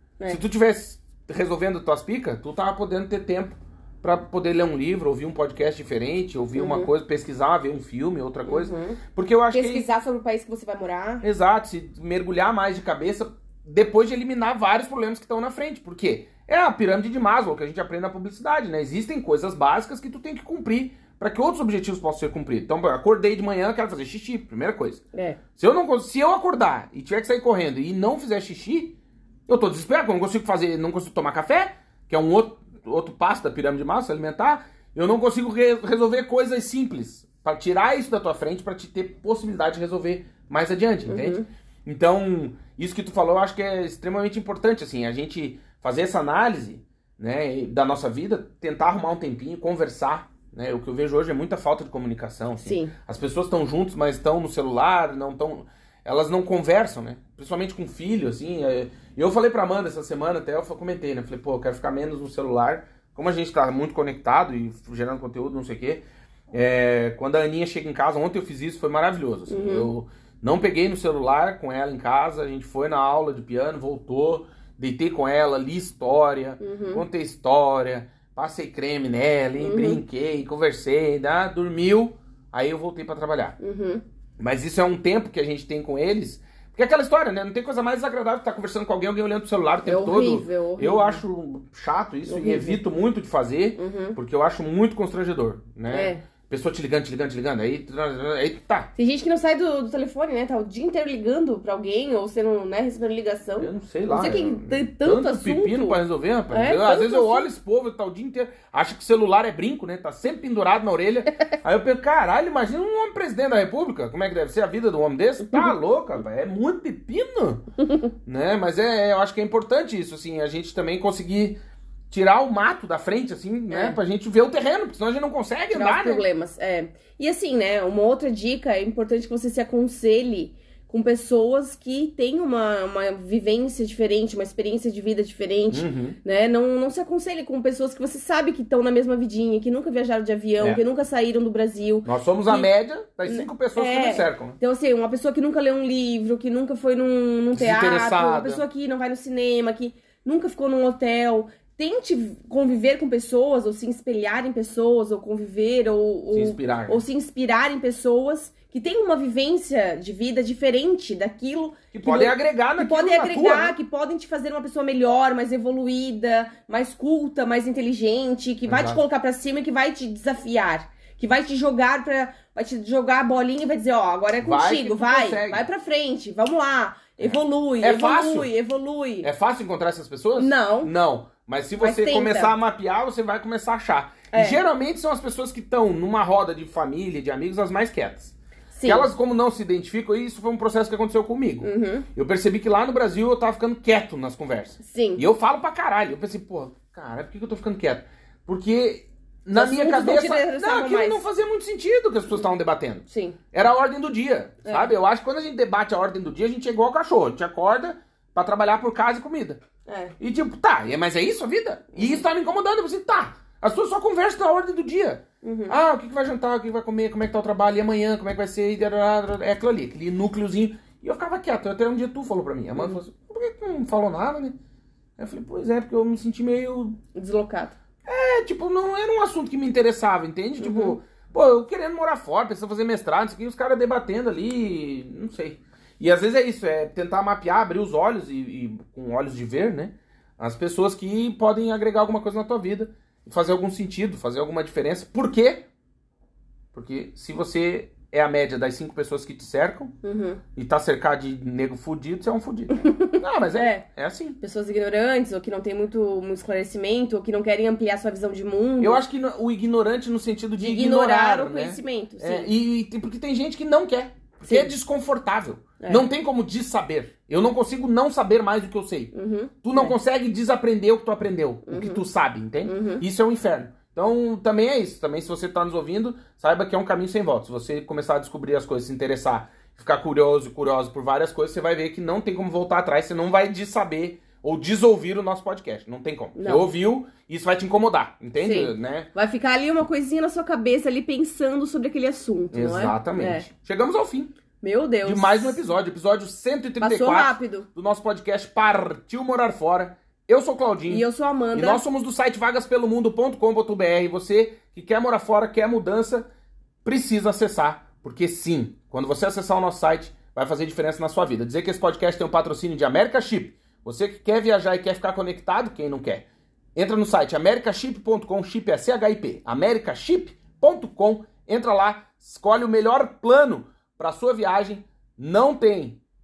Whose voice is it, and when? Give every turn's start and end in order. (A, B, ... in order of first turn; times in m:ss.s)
0:00.3-0:09.9 A
0:06.6-0:06.9 B
0:08.4-0:09.0 B
0:09.5-0:11.2 B
0:11.2-0:25.0 A
0:25.1-0:25.4 B
0:25.6-0:29.0 A
0:29.5-1:23.6 A
0:41.1-0:41.5 B
0:52.6-0:52.9 B
1:09.5-1:09.9 B
1:16.6-1:17.0 B
1:19.6-1:20.0 B
1:23.6-1:24.0 B
1:24.4-1:38.9 A
1:29.8-1:31.2 B
1:32.2-1:32.8 B
1:33.8-1:34.2 B
1:35.9-1:36.2 B
1:39.0-1:46.0 B
1:43.6-1:57.6 A
1:46.5-1:47.5 B
1:58.2-2:01.6 A
2:02.1-2:06.2 A
2:03.7-2:04.0 B
2:05.7-2:22.7 B
2:15.7-2:16.2 A
2:22.0-2:24.6 A
2:23.3-2:59.3 B
2:27.5-2:28.6 A
2:36.3-2:37.0 A
2:41.9-2:43.8 A
2:48.7-2:49.0 A
2:54.4-2:55.6 A
2:57.2-2:58.5 A
2:59.2-3:29.6 A
3:00.4-3:00.9 B
3:01.8-3:02.5 B
3:04.3-3:04.6 B
3:08.7-3:09.1 B
3:11.6-3:12.1 B
3:14.8-3:15.2 B
3:19.5-3:21.2 B
3:23.1-3:23.4 B
3:24.6-3:24.9 B
3:29.9-3:30.1 B
3:30.2-3:44.5 A
3:35.4-3:35.7 B
3:45.2-3:47.0 A
3:47.1-3:47.8 B
3:48.0-4:05.6 A
3:50.6-3:51.0 B
4:06.7-4:09.9 A
4:10.0-4:10.4 B
4:10.5-4:14.4 A
4:12.8-4:13.8 B
4:14.4-4:19.0 B
4:18.8-4:49.1 A
4:20.6-4:22.5 B
4:24.4-4:24.7 B
4:25.8-4:26.0 B
4:29.1-4:30.0 B
4:31.6-4:32.0 B
4:32.6-4:33.0 B
4:46.3-4:46.6 B
4:48.4-4:53.5 B
4:52.5-4:54.3 A
4:54.6-4:55.6 B
4:55.0-5:06.3 A
4:56.8-4:57.7 B
5:00.9-5:01.8 B
5:06.8-5:26.0 A